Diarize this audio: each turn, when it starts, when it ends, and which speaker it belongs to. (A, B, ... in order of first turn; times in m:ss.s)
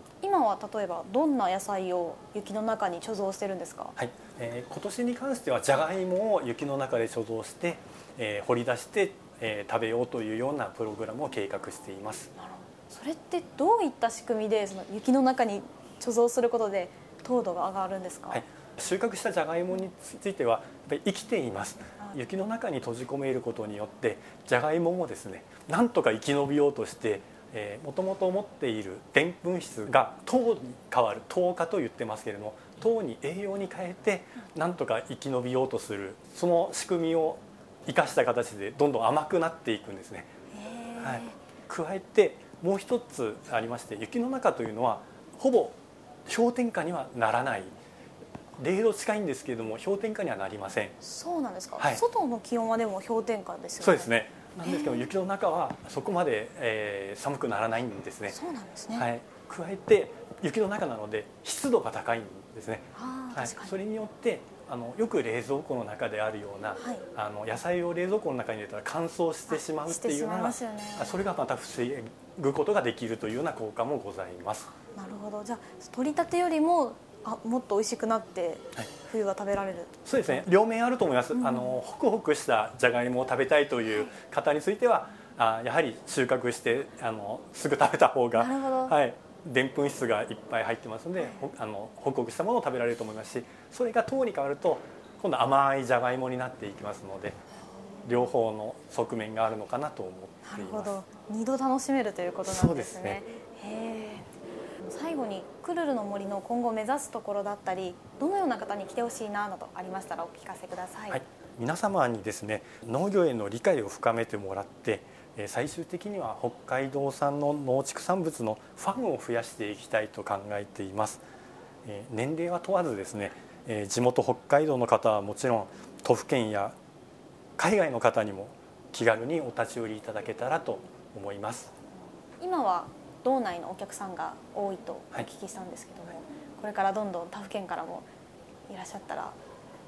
0:00.2-0:04.0 A
0:04.0-0:12.3 B
0:12.4-0:18.4 A
0:18.3-0:40.3 B
0:40.5-0:41.4 A
0:41.0-0:47.8 B
0:48.6-0:51.0 B
0:51.0-0:55.1 A
0:51.8-0:52.0 B
0:53.8-0:58.4 B
0:58.3-0:59.1 A
0:59.0-1:14.7 B
1:03.0-1:03.8 A
1:06.8-1:07.0 A
1:09.5-1:11.2 A
1:14.7-1:20.4 A
1:20.1-1:37.4 B
1:21.3-1:21.8 A
1:23.9-1:24.1 A
1:28.3-1:29.0 A
1:38.0-1:41.0 B
1:40.5-1:44.3 A
1:42.4-1:43.2 B
1:44.8-1:51.2 A
1:51.1-2:01.2 B
2:01.8-2:06.8 B
2:07.6-2:11.7 B
2:12.4-2:18.1 A
2:18.7-2:19.4 A